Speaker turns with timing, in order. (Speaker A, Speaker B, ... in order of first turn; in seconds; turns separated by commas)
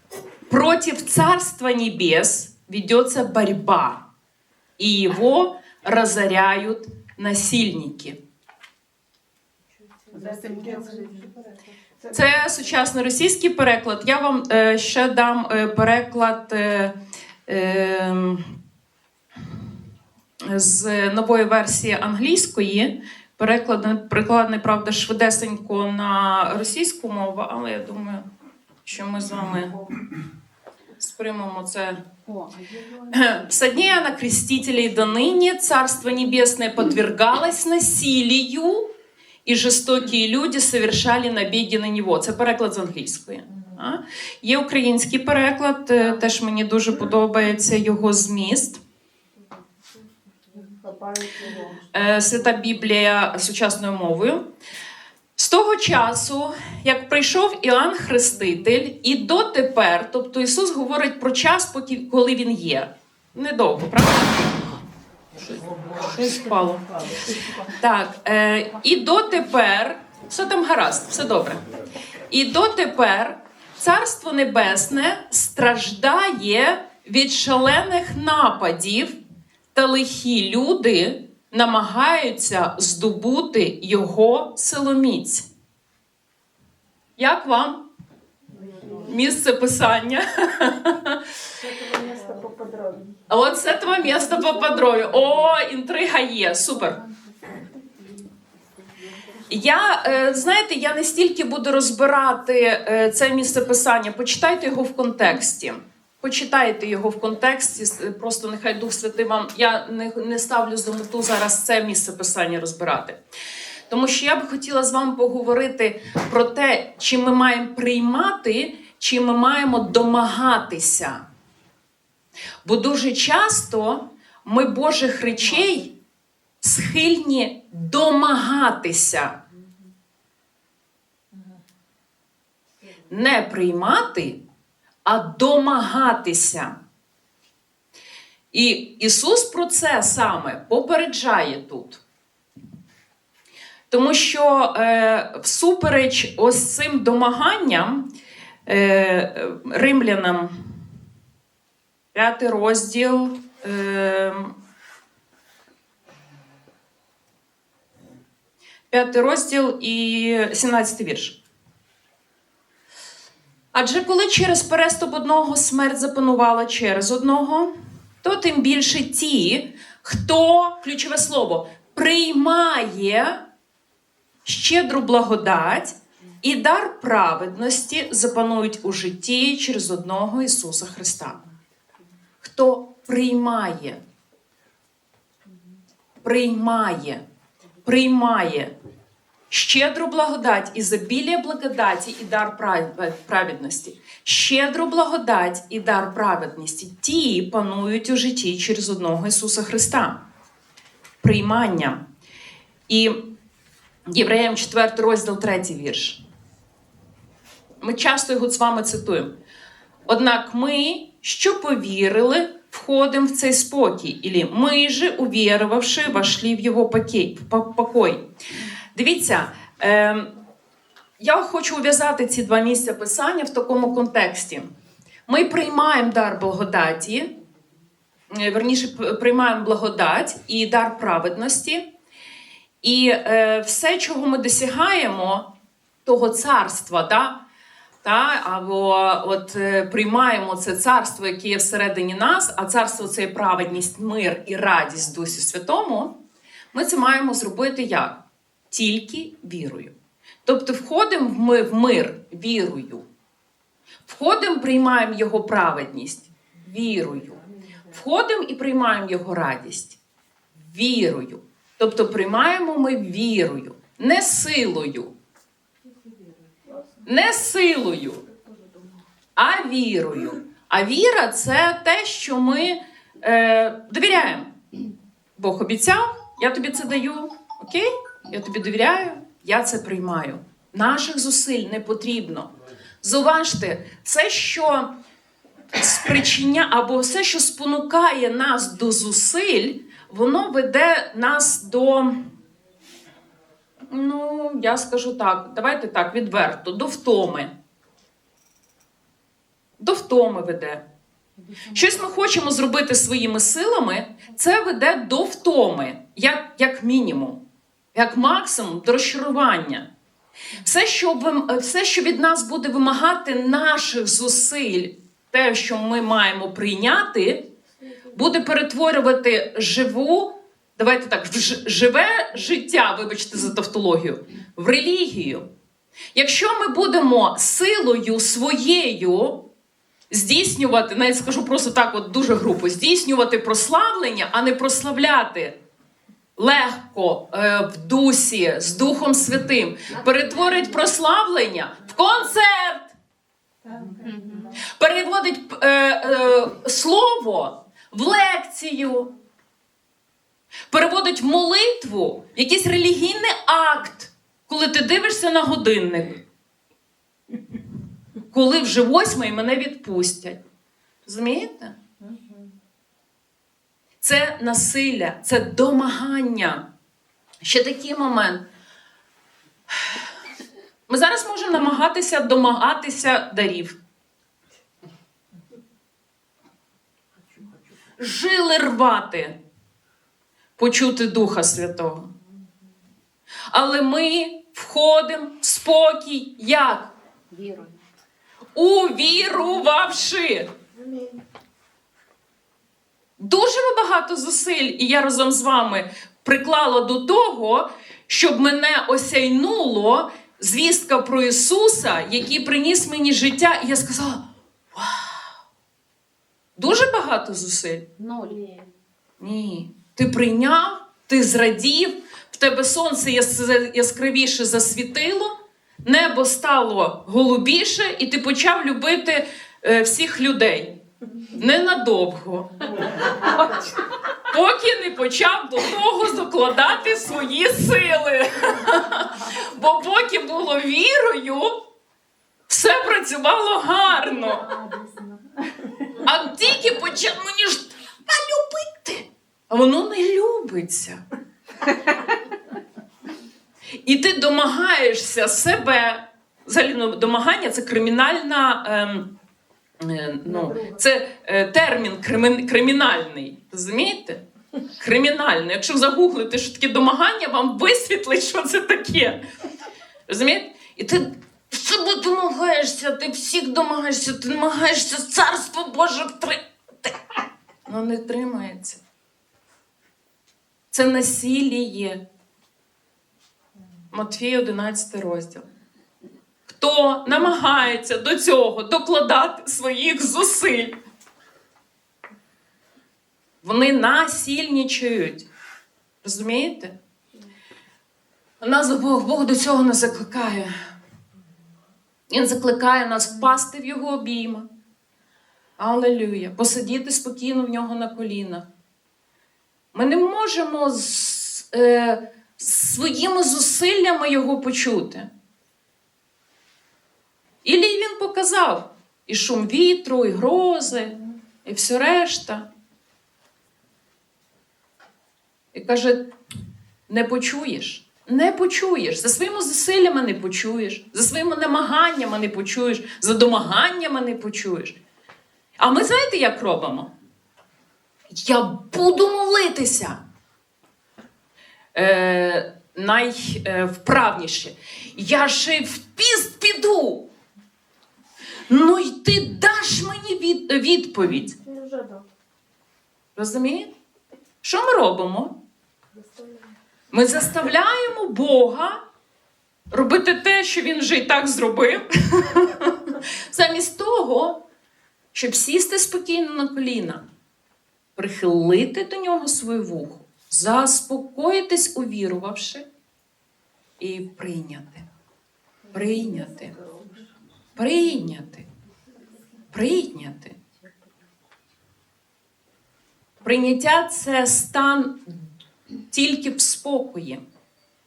Speaker A: 0.5-4.0, Speaker A: 4.8-8.2, Speaker B: 10.1-11.3, Speaker C: 10.1-11.4, Speaker A: 12.1-16.9, Speaker A: 17.5-18.4, Speaker A: 20.4-28.2, Speaker A: 28.9-29.7, Speaker A: 31.0-32.0, Speaker B: 32.2-33.4, Speaker A: 33.1-38.9, Speaker A: 39.4-48.8, Speaker C: 50.7-51.8, Speaker A: 51.9-54.4, Speaker A: 55.4-64.4, Speaker A: 66.0-66.8, Speaker A: 67.6-71.6, Speaker A: 72.3-79.2, Speaker A: 79.7-85.4, Speaker A: 87.2-87.8, Speaker C: 88.5-89.1, Speaker A: 89.0-91.2, Speaker C: 91.6-93.2, Speaker A: 93.3-97.0, Speaker A: 99.5-113.2, Speaker A: 113.9-121.2, Speaker A: 122.6-125.9, Speaker A: 126.6-129.4, Speaker A: 133.1-134.4, Speaker A: 135.1-136.8, Speaker A: 138.5-142.0, Speaker A: 143.9-148.1, Speaker A: 148.7-150.5, Speaker A: 152.1-154.5, Speaker A: 158.9-161.4, Speaker A: 163.7-167.7, Speaker A: 168.2-173.4, Speaker A: 174.4-181.4, Speaker A: 182.4-184.0, Speaker A: 186.2-187.2, Speaker A: 187.8-188.7, Speaker A: 189.5-200.2, Speaker A: 201.2-202.0, Speaker A: 202.9-203.2, Speaker A: 204.1-206.2, Speaker A: 207.8-209.3, Speaker A: 210.1-218.2, Speaker A: 218.9-220.3, Speaker A: 221.2-224.7, Speaker A: 225.3-227.3, Speaker A: 228.3-231.8, Speaker A: 232.8-235.4, Speaker A: 236.1-237.3, Speaker A: 238.0-246.1, Speaker A: 246.7-248.2, Speaker A: 248.7-249.9, Speaker A: 250.4-253.0, Speaker A: 254.1-257.4, Speaker A: 257.9-260.0, Speaker A: 260.6-265.1, Speaker A: 267.1-268.2, Speaker A: 269.4-274.5, Speaker A: 275.4-282.5, Speaker A: 283.0-284.9, Speaker A: 285.7-292.1, Speaker A: 293.9-297.5, Speaker A: 299.8-300.8, Speaker B: 301.4-302.2, Speaker A: 301.7-307.4, Speaker A: 307.9-309.9, Speaker A: 310.6-317.4, Speaker A: 318.1-325.4, Speaker A: 326.1-329.4, Speaker A: 330.1-335.6, Speaker A: 336.4-342.9, Speaker C: 343.6-344.5, Speaker B: 343.9-344.6, Speaker A: 344.7-349.1, Speaker A: 350.7-356.2, Speaker A: 358.3-360.4, Speaker A: 361.1-361.8, Speaker A: 364.0-366.6, Speaker A: 367.4-368.4, Speaker A: 370.9-373.8, Speaker A: 378.0-379.3, Speaker A: 380.6-382.1, Speaker A: 383.5-386.9, Speaker B: 387.3-387.8, Speaker A: 388.6-390.5, Speaker A: 393.2-405.0, Speaker A: 406.6-407.8, Speaker B: 408.0-408.6, Speaker A: 409.2-420.7, Speaker A: 421.3-422.5, Speaker B: 423.3-423.7, Speaker A: 424.3-431.5, Speaker A: 432.5-434.4, Speaker C: 434.1-435.2, Speaker A: 436.0-441.0, Speaker A: 443.8-449.1, Speaker A: 449.8-454.2, Speaker C: 450.4-450.7, Speaker A: 454.8-459.2, Speaker A: 460.1-466.9, Speaker A: 467.7-468.8, Speaker A: 470.7-472.0, Speaker A: 473.9-475.4, Speaker A: 476.5-480.8, Speaker A: 483.4-485.3, Speaker A: 486.0-486.7, Speaker A: 488.4-490.5, Speaker A: 492.1-494.5, Speaker A: 495.6-498.4, Speaker A: 499.7-505.1, Speaker A: 507.4-512.4, Speaker A: 515.5-516.0, Speaker A: 516.9-524.8, Speaker A: 525.6-526.9, Speaker A: 528.1-530.0, Speaker A: 531.7-537.0, Speaker A: 538.5-541.3, Speaker C: 541.2-542.0, Speaker A: 543.1-543.7, Speaker A: 544.4-545.3, Speaker C: 545.9-546.5, Speaker A: 546.9-548.8, Speaker A: 549.7-554.4, Speaker A: 555.1-557.0, Speaker A: 558.0-562.6, Speaker A: 563.8-564.9, Speaker C: 565.6-567.1, Speaker A: 565.7-566.5, Speaker A: 567.6-568.4, Speaker A: 569.5-570.4, Speaker A: 573.2-575.2, Speaker A: 575.9-577.2